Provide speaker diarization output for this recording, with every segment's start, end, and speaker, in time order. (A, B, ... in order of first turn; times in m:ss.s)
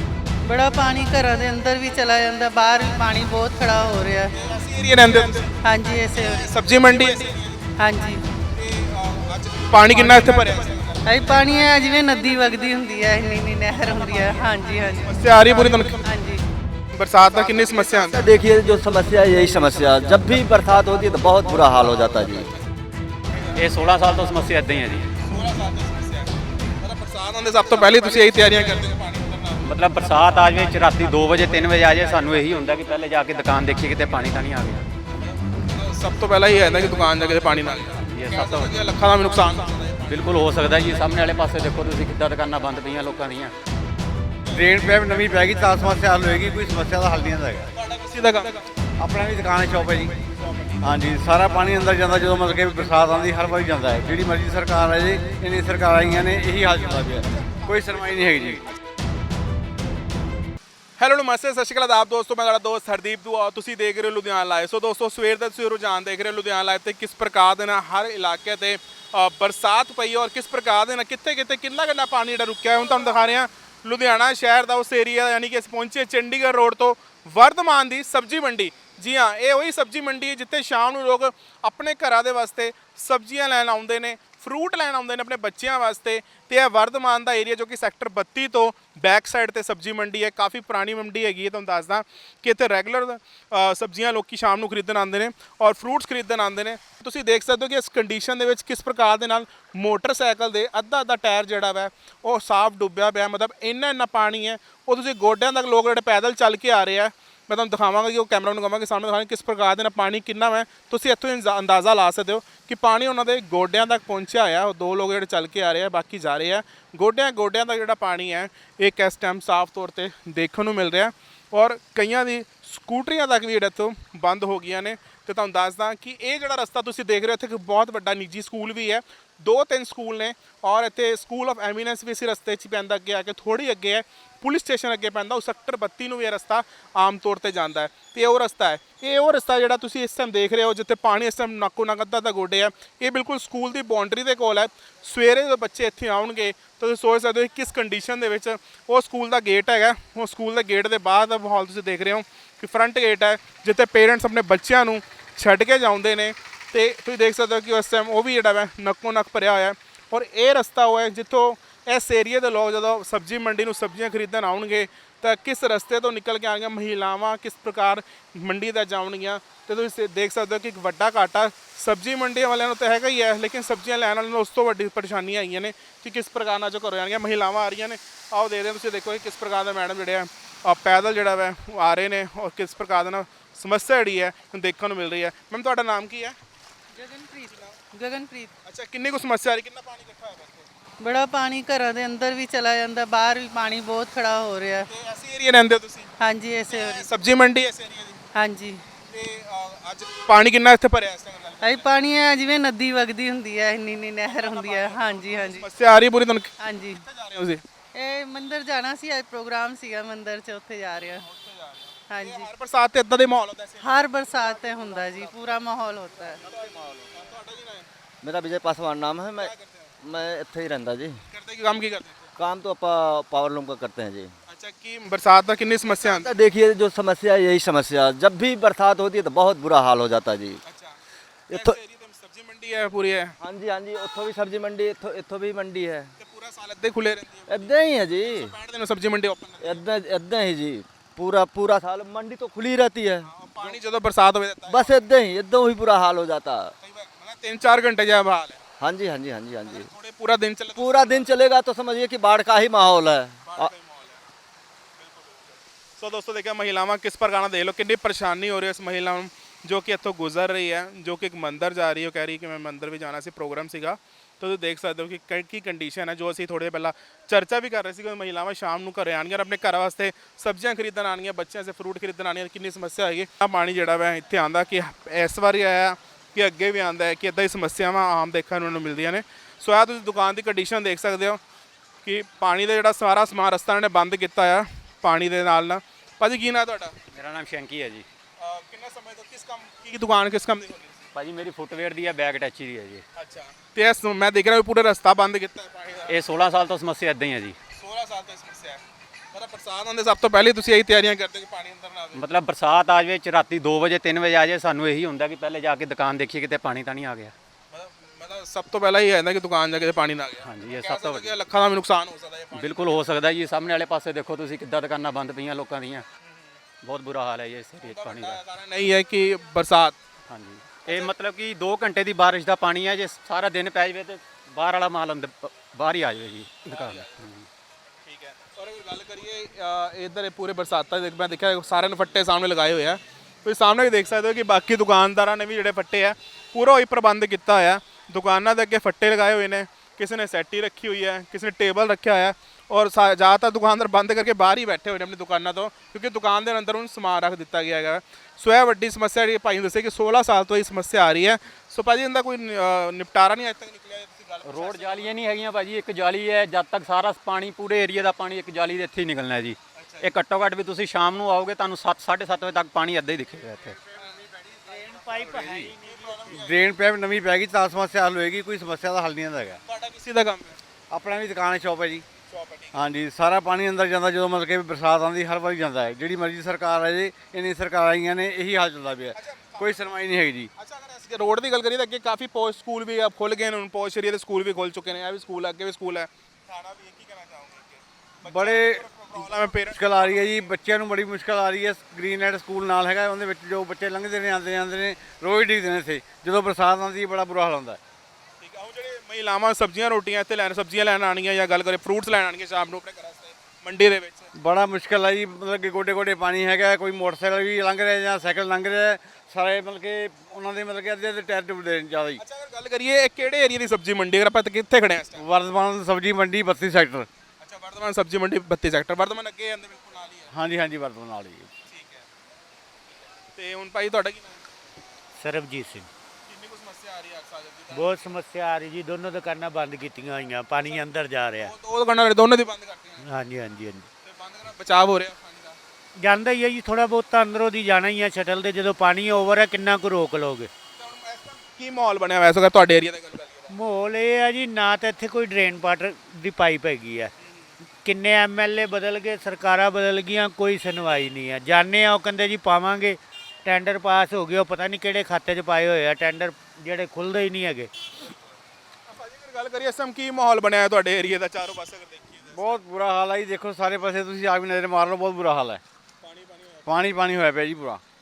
0:00.5-0:04.3 A
0:04.3-0:07.5 B
0:05.6-0:06.6 A
0:07.8-0:08.2 A
0:08.5-0:11.4 B
0:11.0-0:16.4 A
0:15.1-0:16.1 B
0:16.9-0:18.3 B
0:17.4-0:22.5 C
0:21.3-0:22.0 D
0:23.5-0:25.1 E
0:25.3-0:29.7 B
0:29.6-0:34.9 E
0:35.5-0:40.8 B
0:38.0-0:38.9 E
0:40.0-0:43.5 E
0:44.5-0:47.7 D
0:47.7-0:48.6 B
0:49.0-0:50.2 D
0:50.8-0:58.6 D
0:57.4-0:58.7 B
1:01.0-3:06.4 B
3:07.0-3:08.6 A
3:07.5-3:07.8 B
3:08.6-3:10.7 B
3:11.0-3:14.9 A
3:14.9-3:16.1 B
3:16.2-3:17.1 A
3:16.7-3:18.2 B
3:18.4-3:18.9 A
3:19.0-3:21.9 B
3:21.6-3:25.7 A
3:24.2-3:27.6 B
3:26.6-3:27.0 A
3:27.9-3:31.3 A
3:31.2-3:34.3 B
3:32.1-3:32.5 A
3:33.8-3:36.4 A
3:36.7-3:37.9 B
3:38.2-3:41.2 C
3:39.4-3:40.0 B
3:41.3-3:42.3 B
3:42.4-3:44.3 C
3:44.5-3:46.3 B
3:45.9-3:50.6 C
3:50.6-3:51.0 B
3:51.5-3:51.8 C
3:51.5-3:53.4 B
3:53.4-3:56.1 C
3:56.2-3:59.8 B
3:57.5-3:58.6 C
3:59.6-4:03.8 C
4:03.2-4:05.0 B
4:04.7-4:06.7 C
4:06.8-4:08.6 B
4:08.8-4:09.9 C
4:09.6-4:11.4 B
4:10.8-4:13.7 C
4:13.4-4:14.2 B
4:15.0-4:41.4 B
4:42.0-4:47.0 B
4:47.1-4:48.1 E
4:48.4-4:51.1 B
4:51.2-4:53.0 E
4:53.2-4:56.2 B
4:56.1-4:57.6 E
4:57.8-5:02.2 B
5:02.2-5:07.3 E
5:07.7-5:13.1 B
5:10.4-5:11.3 E
5:12.5-5:16.1 E
5:16.2-5:16.5 B
5:16.8-5:18.4 E
5:17.8-5:20.0 B
5:20.3-5:27.5 E
5:20.9-5:21.1 B
5:26.7-5:27.2 B
5:28.0-5:55.2 B
5:54.4-6:03.8 E
5:59.8-6:00.1 B
6:04.2-6:06.3 F
6:05.2-6:05.7 D
6:05.8-6:06.7 B
6:06.3-6:09.6 D
6:09.6-6:10.6 B
6:10.9-6:12.0 D
6:12.3-6:12.8 B
6:12.7-6:20.5 D
6:19.2-6:19.9 B
6:20.6-6:30.4 B
6:28.2-6:37.8 D
6:38.4-6:44.3 B
6:44.3-6:52.2 D
6:52.2-6:55.2 B
6:55.2-6:57.1 D
6:57.4-7:00.3 B
7:00.3-7:01.5 D
7:01.7-7:02.1 B
7:03.2-7:04.4 B
7:05.2-7:05.9 F
7:06.3-7:08.0 B
7:07.7-7:11.5 F
7:11.4-7:13.0 B
7:13.0-7:13.9 F
7:14.0-7:15.6 B
7:16.0-7:20.5 F
7:20.8-7:23.5 B
7:23.5-7:27.1 F
7:27.8-7:37.7 F
7:38.9-7:42.5 B
7:42.3-7:45.6 D
7:46.0-7:46.7 B
7:46.7-7:47.8 D